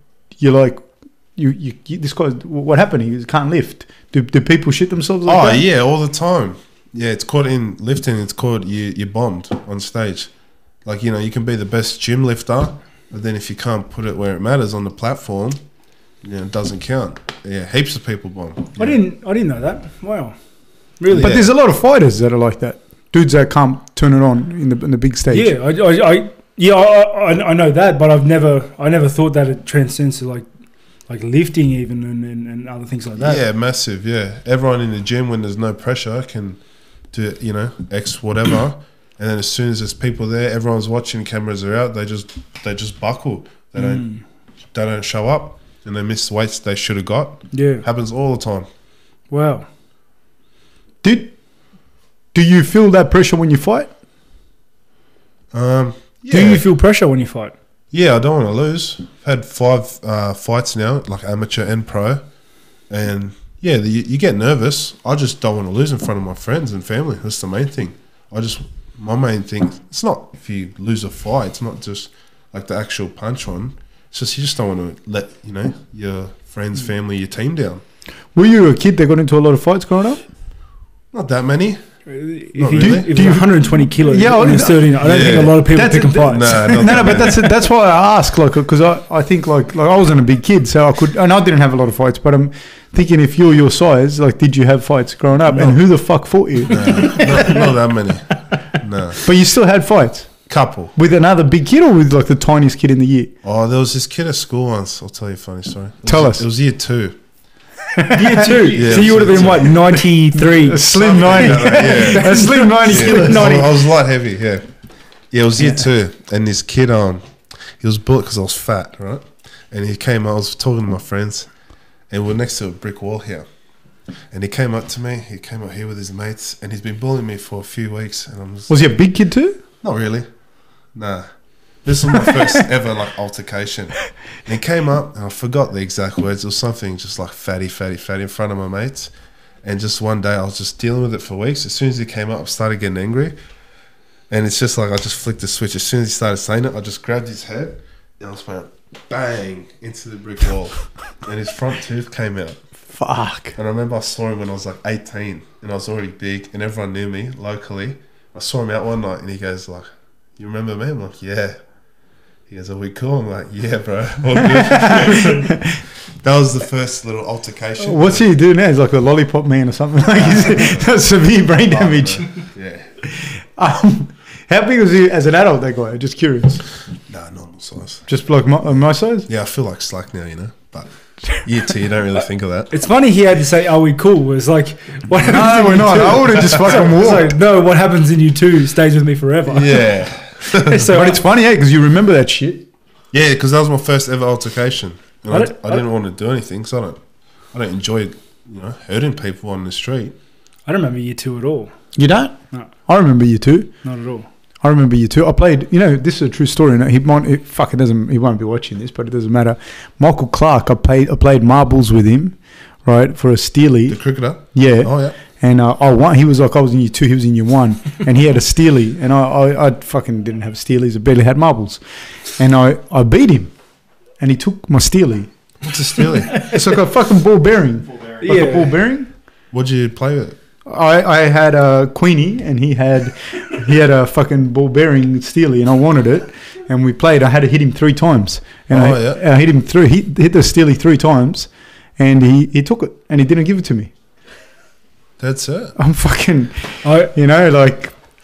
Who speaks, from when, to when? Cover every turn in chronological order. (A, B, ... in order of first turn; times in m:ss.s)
0:00.4-0:05.6 A
0:05.3-0:10.3 B
0:10.8-0:15.6 B
0:16.2-0:19.0 B
0:18.8-0:20.4 C
0:21.0-0:21.4 C
0:21.1-0:21.5 B
0:21.1-0:25.5 A
0:25.3-0:30.5 C
0:31.1-0:33.4 C
0:33.2-0:36.6 B
0:37.1-0:44.0 B
0:43.8-0:44.2 C
0:44.7-0:48.7 B
0:47.5-0:47.8 C
0:49.3-0:49.7 C
0:51.0-0:51.3 A
0:52.3-0:53.9 A
0:55.5-0:56.6 B
0:56.3-0:57.5 C
0:57.9-1:02.2 B
1:02.9-1:17.8 B
1:18.4-1:20.2 A
1:21.1-1:21.8 B
1:22.1-1:27.2 C
1:22.6-1:23.1 B
1:22.6-1:37.6 A
1:25.0-1:25.7 B
1:26.3-1:27.5 B
1:36.7-1:39.2 B
1:39.2-1:40.3 A
1:40.5-1:40.9 B
1:41.0-1:43.3 A
1:43.4-1:47.2 B
1:46.1-1:46.4 A
1:48.0-1:49.0 A
1:48.1-1:53.6 C
1:48.7-1:50.0 B
1:50.3-1:53.8 A
1:50.9-1:54.7 B
1:55.3-1:57.2 B
1:57.8-2:01.5 B
2:02.1-2:03.4 B
2:04.3-2:08.9 B
2:08.7-2:09.6 A
2:09.8-2:10.3 B
2:10.9-2:11.3 B
2:11.8-2:19.1 B
2:19.6-2:23.4 B
2:24.3-2:32.6 B
2:32.9-2:33.6 A
2:33.6-2:41.6 B
2:42.5-2:45.6 B
2:44.4-2:45.8 A
2:46.2-2:48.3 B
2:47.8-2:52.3 A
2:50.1-2:51.0 B
2:51.7-2:52.9 B
2:53.1-2:56.6 A
2:57.1-2:58.0 B
2:58.1-2:59.3 A
2:59.3-3:02.7 B
3:02.7-3:09.9 C
3:05.2-3:07.3 A
3:09.5-3:10.8 B
3:10.5-3:11.2 C
3:10.9-3:12.7 A
3:13.1-3:17.0 B
3:15.3-3:15.8 C
3:17.5-3:20.2 B
3:20.7-3:21.7 C
3:22.0-3:23.7 A
3:23.8-3:24.3 C
3:24.6-3:34.0 A
3:33.9-3:35.2 B
3:34.5-3:41.8 A
3:42.4-3:43.5 A
3:44.2-3:45.3 A
3:45.6-3:46.4 B
3:46.4-3:49.1 A
3:48.2-3:48.8 C
3:49.5-3:50.4 B
3:50.7-4:03.9 A
3:58.7-3:59.2 B
4:05.2-4:05.8 B
4:05.8-4:08.0 A
4:06.8-4:07.1 C